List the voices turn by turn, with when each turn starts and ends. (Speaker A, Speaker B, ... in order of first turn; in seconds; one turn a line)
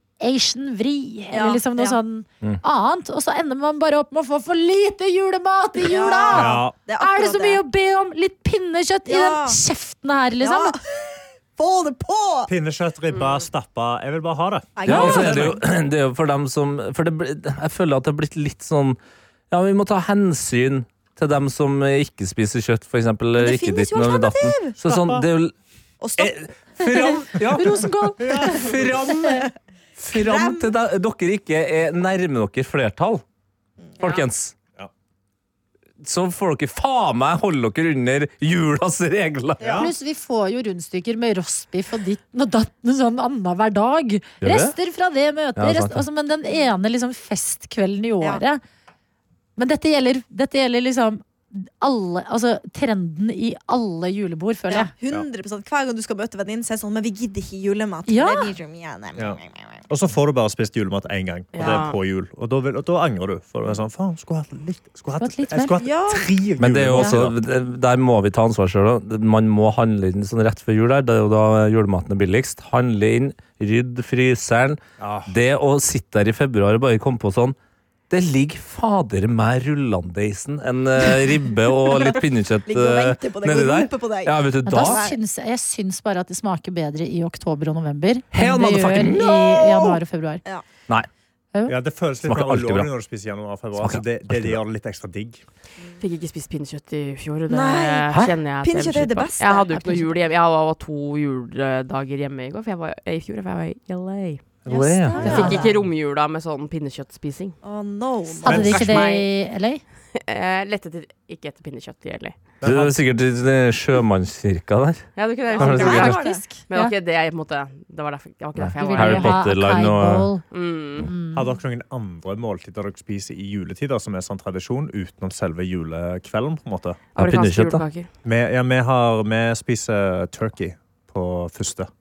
Speaker A: 0.2-10.8
Speaker B: 1.3-2.0
Speaker B: 5.8-7.6
Speaker C: 6.3-6.8
Speaker B: 9.1-9.6
Speaker B: 10.4-12.5
Speaker C: 12.5-15.6
Speaker B: 14.8-15.6
Speaker D: 14.8-19.0
Speaker D: 19.5-25.5
Speaker B: 23.4-24.8
Speaker C: 24.9-25.2
Speaker B: 26.0-26.4
Speaker D: 26.2-33.2
Speaker A: 26.8-29.4
Speaker C: 28.3-28.8
Speaker B: 30.1-30.7
Speaker D: 34.0-34.5
Speaker D: 36.0-39.9
Speaker C: 39.6-39.9
Speaker A: 39.8-48.6
Speaker D: 44.4-44.7
Speaker D: 45.5-46.0
Speaker A: 49.6-54.9
Speaker B: 54.7-59.8
Speaker A: 58.1-58.5
Speaker C: 59.2-67.4
Speaker E: 61.5-62.0
Speaker B: 61.6-61.8
Speaker A: 65.2-65.7
Speaker B: 65.8-66.3
Speaker D: 66.6-77.5
Speaker C: 75.0-75.3
Speaker D: 78.1-85.0
Speaker B: 82.0-85.2
Speaker A: 84.6-90.4
Speaker D: 88.3-90.0
Speaker C: 91.7-95.4
Speaker D: 92.2-92.9
Speaker D: 93.8-94.6
Speaker E: 96.0-104.4
Speaker B: 97.5-100.2
Speaker D: 104.6-105.5
Speaker B: 104.7-105.8
Speaker E: 105.2-107.5
Speaker A: 105.2-105.5
Speaker B: 107.6-109.0
Speaker A: 108.4-109.8
Speaker E: 108.5-109.3
Speaker E: 110.1-112.4
Speaker C: 112.6-113.0
Speaker D: 112.6-116.2
Speaker E: 115.2-119.4
Speaker B: 115.5-116.6
Speaker A: 115.9-116.9
Speaker D: 118.6-120.3
Speaker A: 118.8-120.4
Speaker E: 120.5-121.1
Speaker A: 121.0-121.5
Speaker C: 121.3-127.0
Speaker E: 127.1-128.1
Speaker D: 127.2-127.8
Speaker C: 128.2-131.9